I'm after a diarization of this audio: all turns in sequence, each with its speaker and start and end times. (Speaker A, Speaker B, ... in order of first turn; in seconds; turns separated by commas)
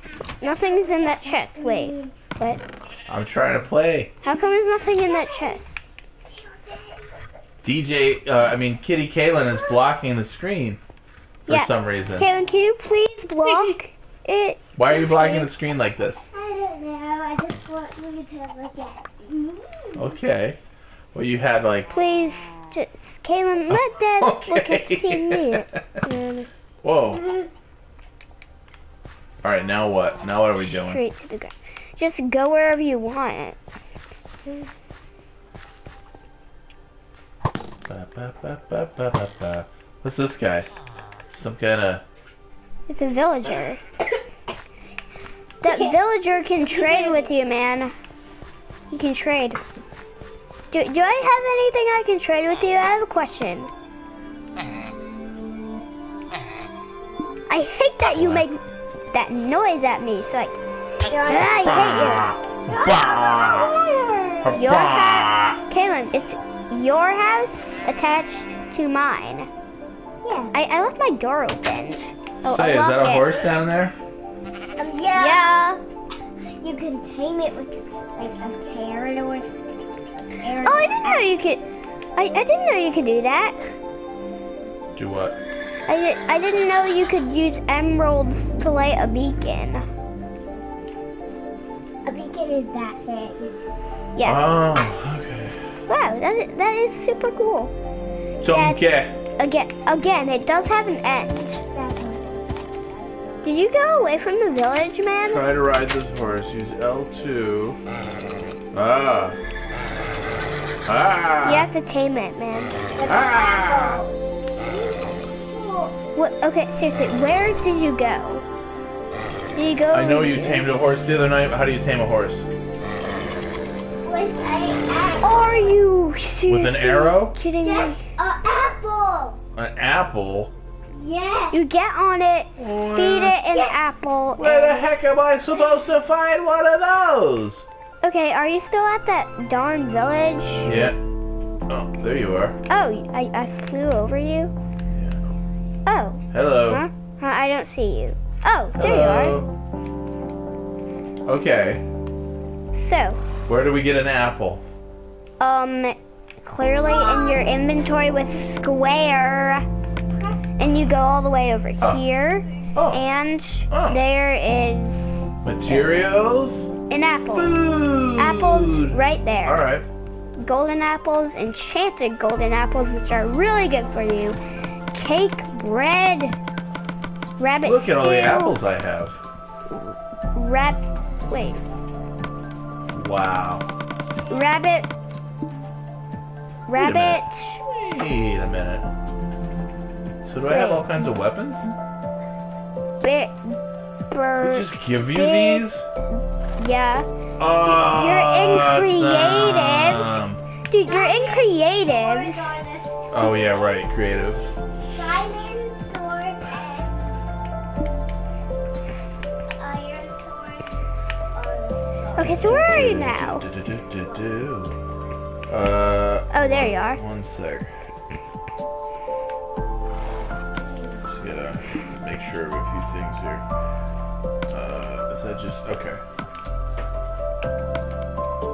Speaker A: 0.4-2.1, Speaker B: 0.4-2.6, Speaker C: 3.1-4.1, Speaker B: 4.2-5.6, Speaker A: 4.3-5.7, Speaker A: 6.2-7.2, Speaker C: 7.6-10.8, Speaker C: 11.5-12.3, Speaker B: 11.5-15.4, Speaker C: 13.5-13.8, Speaker C: 14.8-16.3, Speaker A: 16.3-20.0, Speaker C: 19.9-20.6, Speaker C: 21.1-21.9, Speaker B: 21.9-26.5, Speaker C: 23.7-25.8, Speaker C: 26.8-27.3, Speaker C: 29.4-31.0, Speaker B: 30.7-33.6, Speaker C: 37.9-40.7, Speaker C: 41.3-42.0, Speaker B: 42.9-43.8, Speaker B: 45.6-47.9, Speaker A: 45.6-46.0, Speaker A: 46.6-47.3, Speaker B: 48.9-49.6, Speaker B: 50.7-53.7, Speaker B: 57.5-58.6, Speaker C: 58.2-58.4, Speaker B: 59.1-60.5, Speaker A: 61.0-64.6, Speaker B: 61.2-62.3, Speaker C: 61.6-63.7, Speaker C: 64.4-65.6, Speaker B: 64.5-69.5, Speaker A: 70.2-70.5, Speaker B: 70.5-73.5, Speaker C: 72.5-73.9, Speaker A: 74.8-75.6, Speaker B: 75.1-75.8, Speaker A: 76.6-81.4, Speaker B: 80.6-81.6, Speaker B: 82.2-83.7, Speaker C: 85.0-85.4, Speaker B: 85.9-89.8, Speaker A: 92.0-93.6, Speaker B: 94.2-94.5, Speaker C: 94.2-95.7, Speaker B: 95.9-97.7, Speaker C: 98.4-99.2, Speaker B: 98.4-98.8, Speaker B: 99.4-101.6, Speaker A: 101.6-103.5, Speaker B: 103.4-105.4, Speaker C: 105.2-107.8, Speaker C: 108.7-109.4, Speaker C: 110.8-111.7, Speaker B: 111.4-112.8, Speaker A: 112.9-116.0, Speaker C: 113.0-114.0, Speaker B: 116.1-118.4, Speaker B: 119.5-120.7, Speaker C: 119.9-122.5, Speaker A: 124.0-125.8, Speaker B: 125.2-128.0, Speaker C: 126.5-127.4, Speaker A: 127.6-129.4, Speaker C: 129.5-130.5, Speaker A: 130.9-131.6, Speaker B: 131.5-134.8, Speaker C: 132.6-133.4, Speaker A: 133.5-133.8, Speaker C: 134.4-137.6, Speaker B: 138.0-140.8, Speaker C: 140.6-141.0, Speaker C: 141.7-142.6, Speaker B: 142.7-144.5, Speaker C: 144.9-145.2, Speaker B: 145.8-149.4, Speaker C: 146.3-146.8, Speaker C: 148.7-149.5, Speaker C: 151.2-151.8, Speaker B: 152.8-153.2, Speaker C: 153.5-154.6, Speaker B: 155.4-159.7, Speaker A: 156.8-157.6, Speaker B: 160.6-165.1, Speaker C: 162.7-163.0, Speaker C: 163.7-164.0, Speaker C: 165.4-166.7, Speaker B: 166.9-167.5, Speaker C: 167.3-169.8, Speaker B: 168.1-169.7, Speaker B: 170.4-174.4, Speaker B: 174.9-176.4, Speaker B: 177.4-178.6, Speaker C: 177.6-179.2, Speaker B: 179.7-181.6, Speaker C: 182.9-183.7, Speaker B: 184.3-184.9, Speaker B: 186.7-187.6, Speaker C: 186.8-188.9, Speaker C: 190.2-191.7, Speaker B: 190.5-190.9, Speaker B: 193.0-193.6, Speaker B: 194.1-195.7, Speaker C: 194.4-195.8, Speaker B: 196.6-197.1, Speaker C: 197.4-200.4, Speaker B: 197.6-200.1, Speaker B: 200.7-202.5, Speaker A: 200.8-203.5, Speaker C: 203.1-204.4, Speaker A: 204.8-207.1, Speaker A: 209.6-210.8, Speaker A: 211.3-212.3, Speaker B: 212.2-213.4, Speaker C: 212.2-214.7, Speaker C: 215.5-217.7, Speaker B: 216.3-217.0, Speaker A: 220.5-221.1, Speaker C: 221.1-223.4, Speaker C: 224.5-226.0